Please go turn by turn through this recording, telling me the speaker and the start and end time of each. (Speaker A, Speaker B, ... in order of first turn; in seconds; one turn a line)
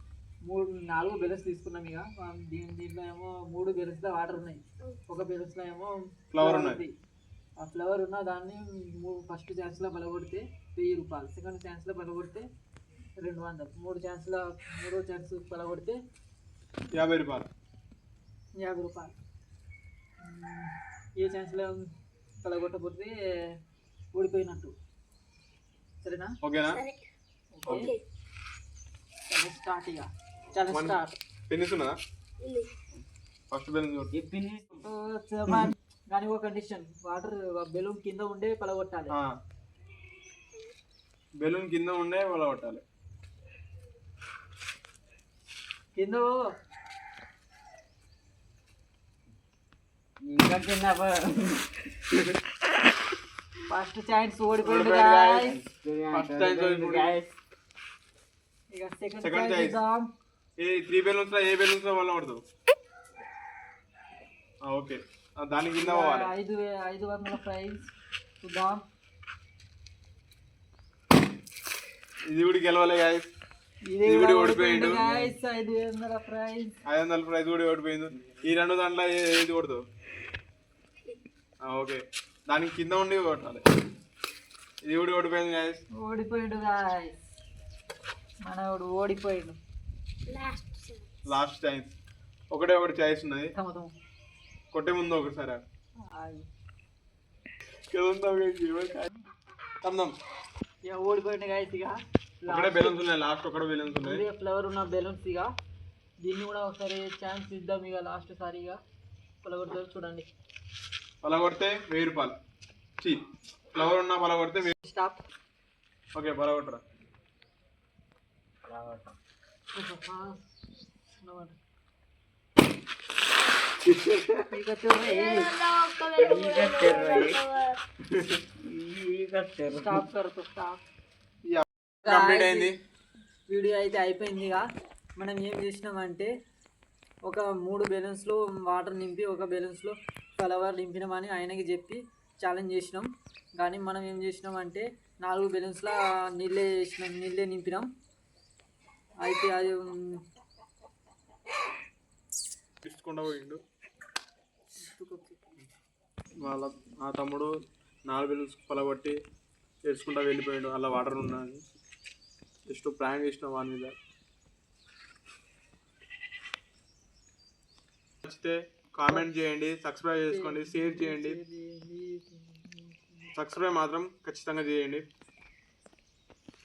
Speaker A: 0.5-6.9
Speaker B: 6.3-6.8
Speaker A: 7.6-12.5
Speaker A: 13.2-16.0
Speaker B: 16.9-17.5
Speaker A: 18.5-19.1
Speaker A: 20.2-21.9
Speaker A: 22.4-23.6
Speaker A: 24.1-24.7
Speaker A: 26.0-26.3
Speaker B: 26.4-26.8
Speaker C: 26.7-27.0
Speaker A: 27.5-27.9
Speaker C: 27.6-28.0
Speaker B: 27.7-27.9
Speaker A: 29.3-31.1
Speaker B: 30.7-31.9
Speaker C: 32.4-32.7
Speaker B: 33.5-34.1
Speaker D: 34.1-34.8
Speaker A: 34.8-39.1
Speaker B: 41.4-42.8
Speaker A: 45.9-46.3
Speaker D: 50.2-51.8
Speaker A: 53.7-55.6
Speaker B: 54.6-57.2
Speaker D: 55.5-57.3
Speaker A: 58.7-60.1
Speaker B: 59.2-59.8
Speaker B: 60.6-62.4
Speaker B: 64.6-66.3
Speaker A: 65.8-67.9
Speaker A: 68.4-68.8
Speaker B: 72.3-73.3
Speaker A: 73.9-76.8
Speaker B: 74.0-75.0
Speaker B: 76.8-79.8
Speaker B: 81.6-83.6
Speaker B: 84.8-85.8
Speaker A: 86.0-87.2
Speaker A: 88.4-89.6
Speaker C: 90.3-91.0
Speaker B: 91.3-92.0
Speaker B: 92.5-93.5
Speaker A: 93.5-93.9
Speaker B: 94.7-95.6
Speaker A: 96.0-96.5
Speaker B: 97.9-99.1
Speaker B: 99.8-100.2
Speaker A: 100.8-103.0
Speaker B: 102.5-104.2
Speaker A: 104.0-105.5
Speaker A: 106.2-108.8
Speaker A: 109.4-110.3
Speaker B: 111.2-112.3
Speaker B: 113.0-114.7
Speaker A: 114.7-115.2
Speaker B: 116.1-116.8
Speaker D: 118.7-119.1
Speaker A: 119.7-120.6
Speaker A: 121.2-121.6
Speaker B: 123.9-124.3
Speaker A: 124.5-125.5
Speaker C: 125.0-127.8
Speaker D: 126.2-127.4
Speaker D: 128.3-130.0
Speaker A: 129.7-130.8
Speaker B: 131.5-132.8
Speaker A: 132.0-132.7
Speaker A: 133.5-134.6
Speaker A: 135.2-136.3
Speaker A: 137.2-147.9
Speaker A: 149.2-150.2
Speaker B: 152.8-153.6
Speaker A: 154.8-155.5
Speaker B: 156.4-157.5
Speaker B: 158.1-159.2
Speaker B: 159.8-161.6
Speaker B: 162.7-163.9
Speaker B: 168.2-171.4
Speaker A: 170.3-173.3
Speaker B: 173.3-175.1